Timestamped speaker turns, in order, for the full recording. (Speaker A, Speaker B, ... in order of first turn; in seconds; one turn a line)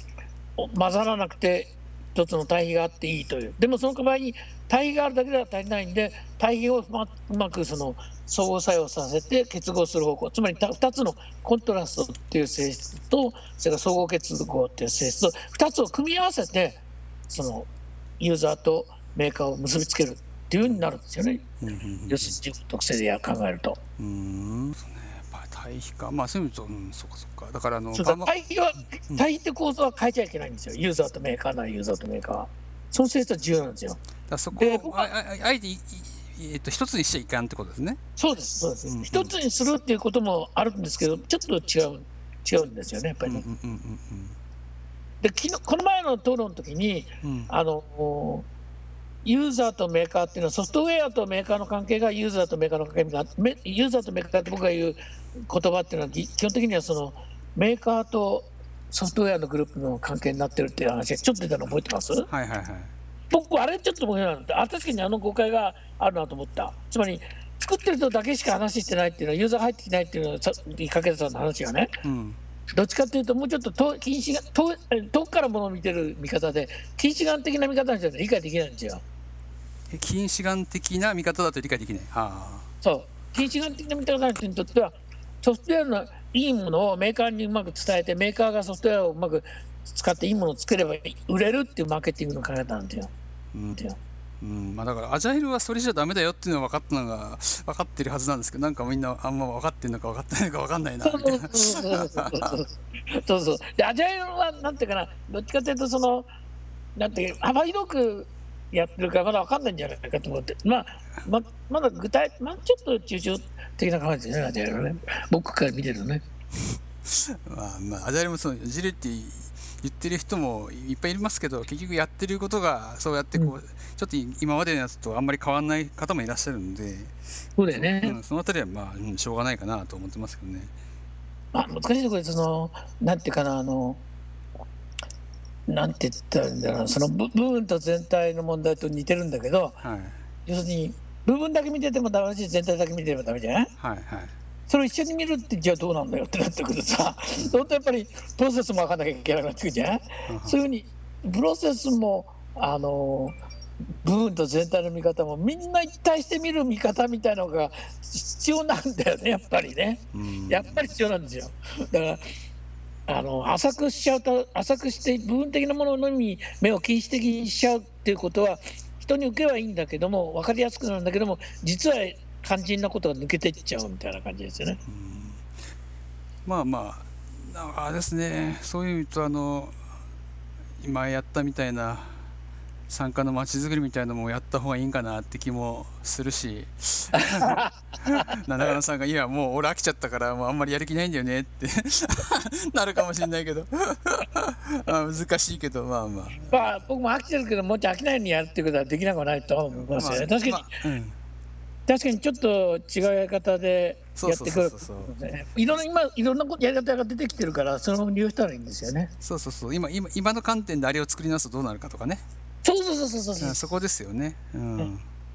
Speaker A: 0.6-17.7
Speaker A: 18.2-21.5
Speaker B: 21.6-22.4
Speaker A: 22.1-23.8
Speaker B: 24.0-28.3
Speaker A: 27.9-34.0
Speaker B: 34.3-38.0
Speaker A: 34.5-35.1
Speaker A: 38.2-43.4
Speaker B: 38.8-39.3
Speaker B: 43.2-44.4
Speaker A: 45.2-48.5
Speaker B: 47.2-47.5
Speaker A: 49.2-62.3
Speaker B: 62.3-62.9
Speaker A: 63.3-71.9
Speaker B: 72.0-72.4
Speaker A: 72.7-79.0
Speaker B: 79.9-82.7
Speaker A: 82.8-93.1
Speaker B: 93.5-93.8
Speaker B: 94.4-102.6
Speaker A: 101.0-106.3
Speaker A: 107.0-116.2
Speaker B: 117.0-127.2
Speaker A: 127.6-128.2
Speaker B: 127.7-130.7
Speaker A: 131.5-134.0
Speaker A: 135.7-139.8
Speaker B: 139.8-140.2
Speaker A: 140.4-143.7
Speaker B: 143.8-144.3
Speaker A: 144.7-153.4
Speaker B: 150.2-150.6
Speaker A: 154.0-162.2
Speaker B: 160.1-160.9
Speaker A: 163.1-174.8
Speaker B: 174.8-175.5
Speaker B: 176.4-179.8
Speaker B: 180.8-182.2
Speaker B: 182.9-196.8
Speaker A: 187.1-188.3
Speaker A: 196.5-200.7
Speaker B: 199.7-201.2
Speaker A: 201.9-209.1
Speaker B: 204.2-205.1
Speaker B: 209.2-212.2
Speaker A: 212.6-213.6
Speaker B: 213.4-215.0